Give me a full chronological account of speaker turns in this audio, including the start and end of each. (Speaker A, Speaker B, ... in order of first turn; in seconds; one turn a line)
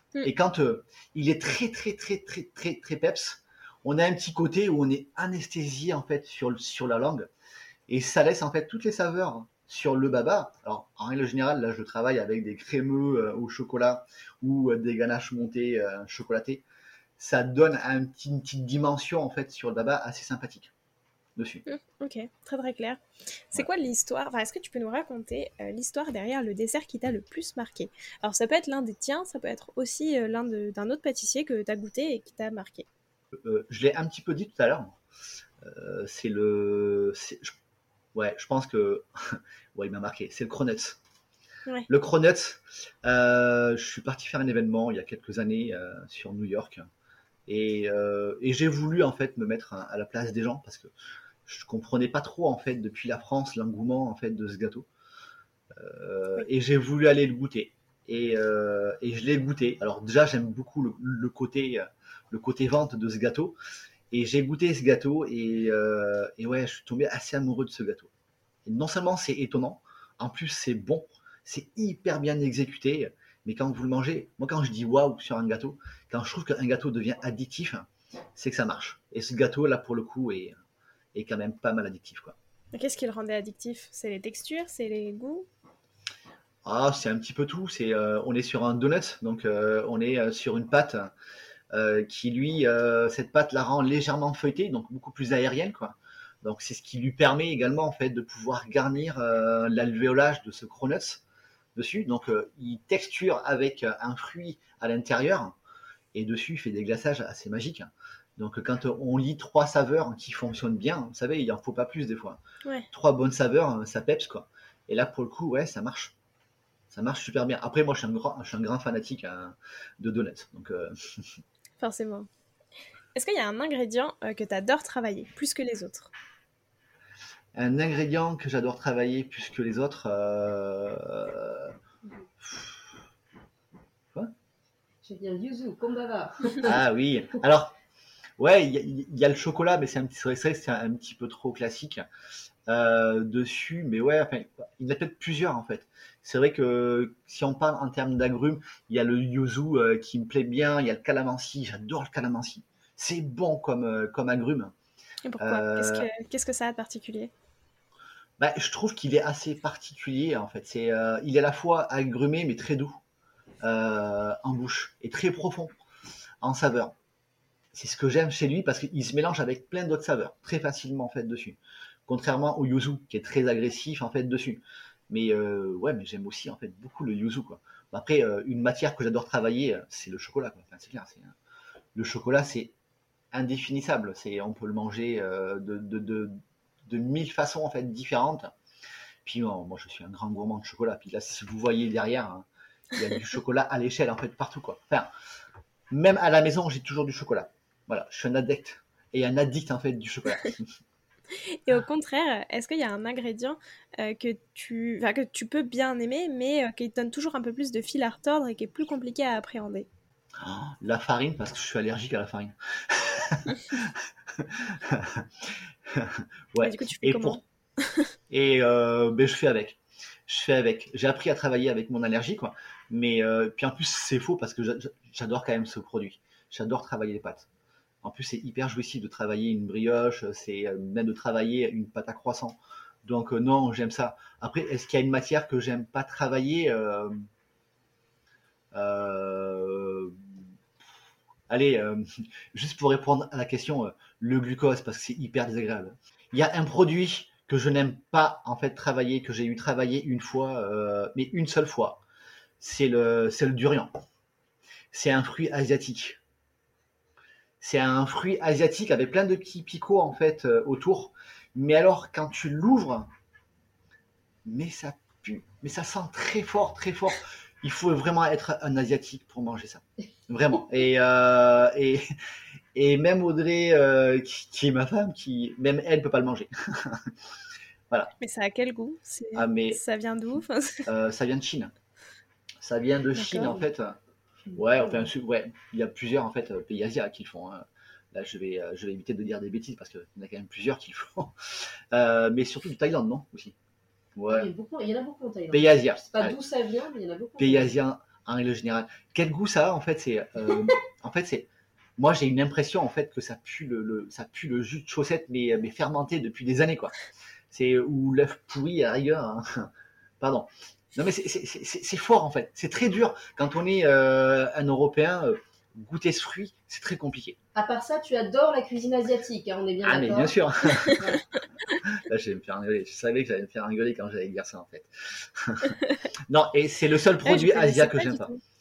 Speaker A: 0.2-7.3
Speaker A: 7.9-16.6
Speaker A: 17.2-20.7
Speaker A: 21.4-21.6
Speaker B: 21.6-32.9
Speaker A: 33.4-35.0
Speaker A: 35.6-37.5
Speaker A: 38.1-41.0
Speaker A: 41.9-46.9
Speaker A: 47.5-50.9
Speaker A: 51.5-54.9
Speaker A: 55.7-63.5
Speaker A: 64.1-68.1
Speaker A: 68.7-80.5
Speaker A: 81.1-82.3
Speaker B: 82.7-85.5
Speaker A: 86.6-91.1
Speaker A: 91.7-101.2
Speaker A: 101.8-105.5
Speaker A: 106.1-112.4
Speaker A: 112.9-116.1
Speaker A: 116.9-121.2
Speaker B: 121.8-122.3
Speaker B: 123.1-126.1
Speaker A: 127.5-131.7
Speaker A: 132.4-132.8
Speaker C: 135.0-136.7
Speaker A: 136.6-137.7
Speaker A: 138.4-142.0
Speaker A: 142.7-154.7
Speaker B: 155.2-157.3
Speaker A: 155.4-156.1
Speaker A: 158.4-163.0
Speaker A: 163.6-165.7
Speaker A: 166.4-166.9
Speaker A: 167.7-181.3
Speaker A: 181.9-182.7
Speaker A: 183.3-188.5
Speaker A: 189.2-195.1
Speaker A: 195.9-200.7
Speaker B: 201.3-209.9
Speaker A: 210.4-217.4
Speaker B: 216.6-218.1
Speaker A: 218.3-227.5
Speaker A: 228.0-237.3
Speaker A: 238.7-240.2
Speaker A: 241.5-252.0
Speaker A: 252.6-253.9
Speaker A: 254.9-256.2
Speaker A: 257.6-263.1
Speaker A: 264.4-272.1
Speaker A: 272.7-277.1
Speaker B: 278.2-280.9
Speaker A: 279.3-279.8
Speaker A: 280.9-281.7
Speaker A: 282.6-284.0
Speaker B: 283.1-283.6
Speaker A: 284.5-293.6
Speaker A: 294.1-294.5
Speaker C: 294.3-297.7
Speaker A: 295.5-296.4
Speaker A: 297.4-317.4
Speaker C: 317.5-320.3
Speaker A: 319.8-321.0
Speaker C: 320.9-321.2
Speaker A: 321.8-328.3
Speaker B: 327.2-328.4